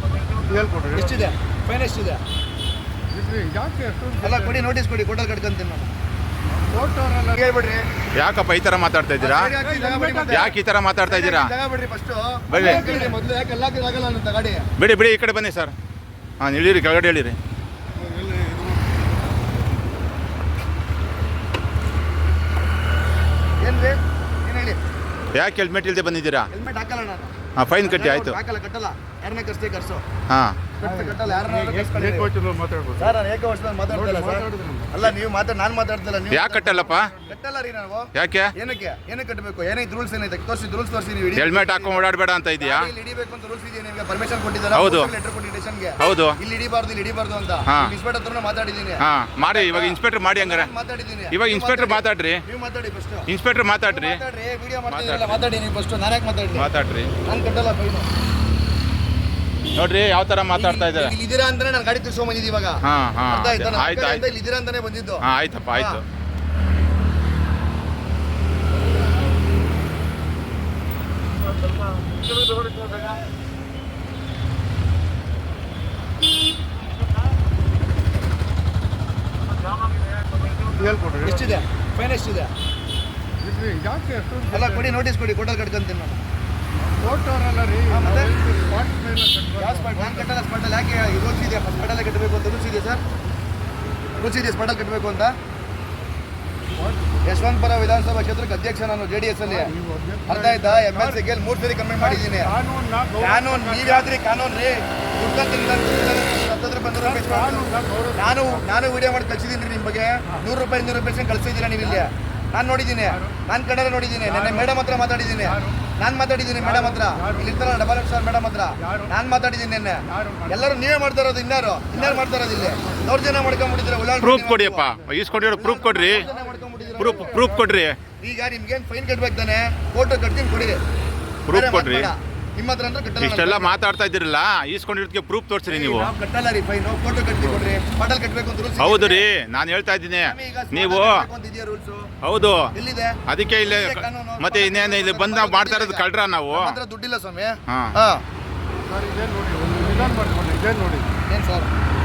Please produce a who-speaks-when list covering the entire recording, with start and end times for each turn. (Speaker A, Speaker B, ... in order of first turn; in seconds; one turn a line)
Speaker A: 0.4-1.2
Speaker B: 0.9-2.2
Speaker A: 3.1-4.7
Speaker B: 4.2-5.9
Speaker A: 6.5-7.4
Speaker B: 7.4-7.8
Speaker C: 8.2-9.5
Speaker B: 9.2-10.5
Speaker A: 9.5-10.5
Speaker C: 10.3-11.5
Speaker B: 11.1-14.7
Speaker C: 12.5-13.0
Speaker A: 12.5-13.1
Speaker C: 14.8-15.7
Speaker C: 16.4-17.4
Speaker A: 18.0-18.8
Speaker B: 23.6-24.8
Speaker C: 25.3-26.5
Speaker B: 26.5-30.0
Speaker C: 27.6-28.4
Speaker C: 30.3-30.6
Speaker B: 30.8-32.3
Speaker A: 30.8-33.1
Speaker B: 33.0-42.1
Speaker A: 33.9-34.9
Speaker C: 36.3-37.1
Speaker C: 38.1-38.5
Speaker C: 41.3-42.9
Speaker B: 42.6-53.3
Speaker C: 44.7-45.1
Speaker C: 46.0-46.4
Speaker C: 47.7-47.9
Speaker C: 49.0-50.7
Speaker C: 51.3-52.4
Speaker C: 53.3-54.2
Speaker B: 53.9-56.7
Speaker C: 54.9-55.4
Speaker C: 56.5-57.1
Speaker B: 57.2-58.1
Speaker C: 59.7-61.1
Speaker B: 60.5-66.0
Speaker C: 62.8-64.2
Speaker C: 65.2-66.0
Speaker A: 80.6-81.6
Speaker B: 81.2-82.5
Speaker A: 83.4-85.0
Speaker B: 84.5-86.2
Speaker A: 86.8-90.3
Speaker B: 87.9-88.3
Speaker B: 89.5-93.0
Speaker B: 94.2-95.3
Speaker A: 96.8-97.2
Speaker B: 97.2-99.7
Speaker A: 99.5-101.2
Speaker B: 100.3-102.5
Speaker A: 102.0-104.1
Speaker B: 103.2-124.8
Speaker A: 107.0-108.6
Speaker A: 114.3-114.7
Speaker A: 115.4-115.8
Speaker A: 116.6-117.6
Speaker A: 118.8-119.1
Speaker A: 120.1-120.7
Speaker A: 122.0-123.0
Speaker C: 124.2-126.2
Speaker B: 125.4-127.4
Speaker A: 126.0-127.7
Speaker C: 127.0-128.0
Speaker B: 128.2-130.8
Speaker C: 131.5-132.1
Speaker B: 131.5-133.8
Speaker C: 133.2-136.1
Speaker B: 135.7-139.2
Speaker C: 138.8-141.3
Speaker B: 140.2-142.1
Speaker C: 142.2-142.7
Speaker B: 142.7-148.2
Speaker C: 143.3-146.8
Speaker C: 147.7-147.9
Speaker A: 148.9-151.1
Speaker B: 151.3-151.7